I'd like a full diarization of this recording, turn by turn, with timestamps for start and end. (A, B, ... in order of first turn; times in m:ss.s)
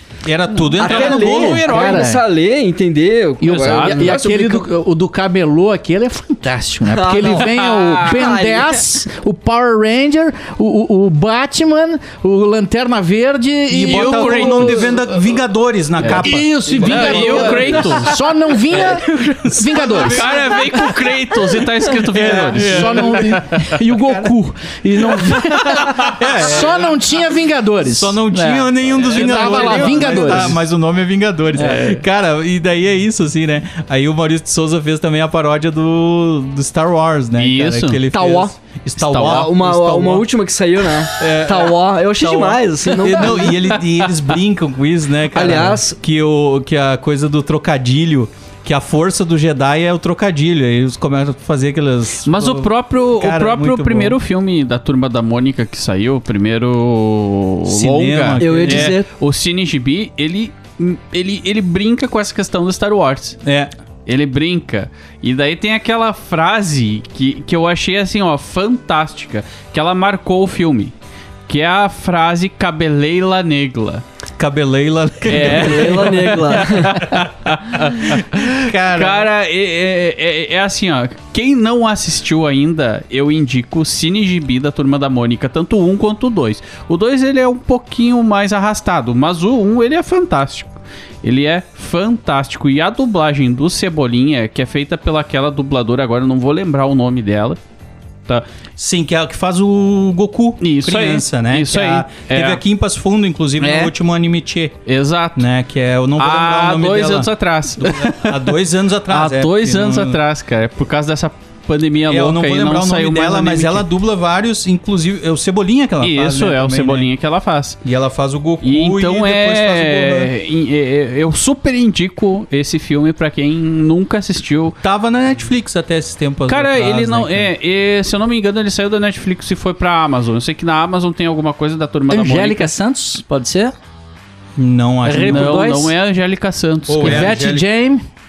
0:00.2-0:01.7 A
0:00.5-0:02.1 B
0:00.8-0:04.7 C
0:01.6-0:02.2 D
0:03.4-0:15.0 D
0:03.5-0:04.2 B
0:06.9-0:08.8 C
0:07.3-0:08.3 B
0:13.7-0:18.1 A
0:13.8-0:14.9 B
0:16.0-0:18.1 B
0:16.0-0:20.6 D
0:18.9-0:20.9 A
0:19.1-0:19.4 C
0:19.9-0:23.8 B
0:22.0-0:23.4 A
0:22.3-0:30.6 D
0:24.0-0:24.3 A
0:25.1-0:27.0 A
0:25.6-0:26.1 B
0:27.8-0:40.3 A
0:29.0-0:30.6 B
0:31.5-0:32.0 D
0:37.4-0:38.0 B
0:38.1-0:38.5 C
0:39.0-0:39.5 B
0:39.1-0:43.7 C
0:41.1-0:54.2 A
0:43.8-0:44.1 B
0:45.3-0:46.0 C
0:52.2-1:03.4 B
0:57.6-0:59.0 A
0:58.4-0:59.1 C
1:03.4-1:03.7 A
1:04.0-1:10.9 B
1:11.5-1:14.0 B
1:14.4-1:17.2 A
1:15.2-1:37.6 B
1:15.3-1:17.0 C
1:17.9-1:19.3 A
1:38.8-1:44.7 A
1:40.6-1:42.6 B
1:43.6-1:43.9 B
1:44.8-1:45.4 B
1:45.4-1:47.3 A
1:46.2-1:48.6 B
1:47.8-1:50.2 A
1:49.1-1:53.8 B
1:52.1-1:57.1 A
1:56.0-1:57.8 B
1:57.8-2:00.3 A
1:58.6-2:04.8 B
2:04.8-2:07.5 A
2:06.4-2:12.7 B
2:12.1-2:13.7 D
2:14.6-2:15.7 A
2:15.0-2:15.9 D
2:15.2-2:17.4 B
2:16.9-2:17.7 A
2:17.0-2:18.0 D